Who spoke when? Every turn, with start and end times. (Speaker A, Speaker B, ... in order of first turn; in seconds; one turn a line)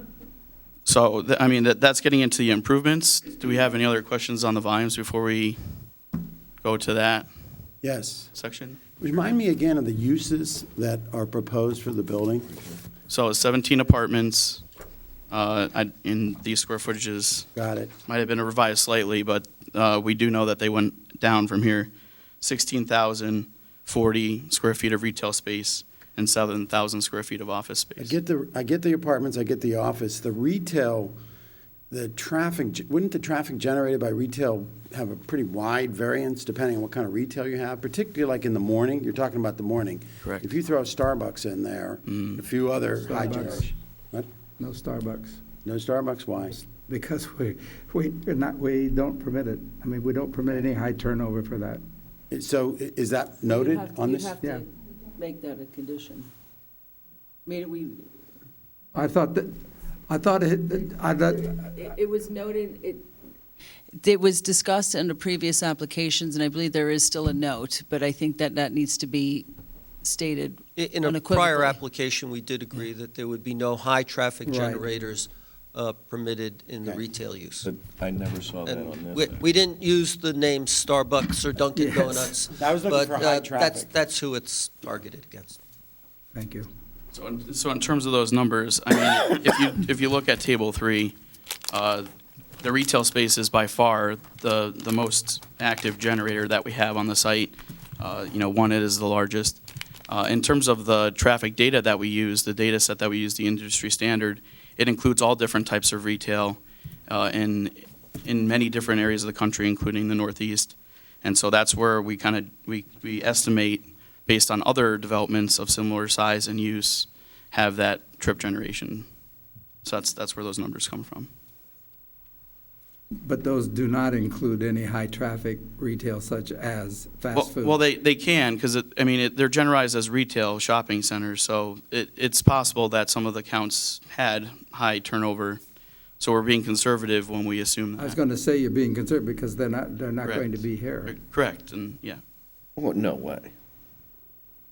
Speaker A: 0.9-5.6
Speaker A: 6.6-7.3
Speaker B: 7.8-8.3
Speaker A: 8.3-8.8
Speaker B: 9.0-12.6
Speaker A: 13.1-14.6
Speaker A: 15.3-17.5
Speaker B: 17.6-17.9
Speaker A: 18.1-21.9
Speaker A: 22.4-28.2
Speaker B: 28.0-31.1
Speaker B: 31.9-44.3
Speaker A: 42.1-42.4
Speaker C: 43.0-43.7
Speaker C: 44.6-45.4
Speaker B: 45.6-46.6
Speaker C: 46.7-51.8
Speaker B: 52.3-54.3
Speaker D: 53.5-56.3
Speaker D: 57.5-58.0
Speaker C: 58.9-59.5
Speaker C: 60.1-61.8
Speaker D: 61.6-63.1
Speaker D: 64.0-69.5
Speaker D: 70.0-71.8
Speaker E: 70.8-77.7
Speaker C: 74.5-74.9
Speaker F: 77.6-79.4
Speaker E: 78.7-85.6
Speaker C: 81.8-82.3
Speaker B: 82.5-83.9
Speaker C: 86.3-86.7
Speaker A: 87.1-91.2
Speaker A: 91.7-92.1
Speaker A: 92.6-119.1
Speaker A: 119.8-121.3
Speaker C: 123.2-127.8
Speaker A: 127.3-135.6
Speaker A: 136.2-138.2
Speaker C: 138.0-141.2
Speaker A: 140.2-142.2
Speaker F: 142.8-143.5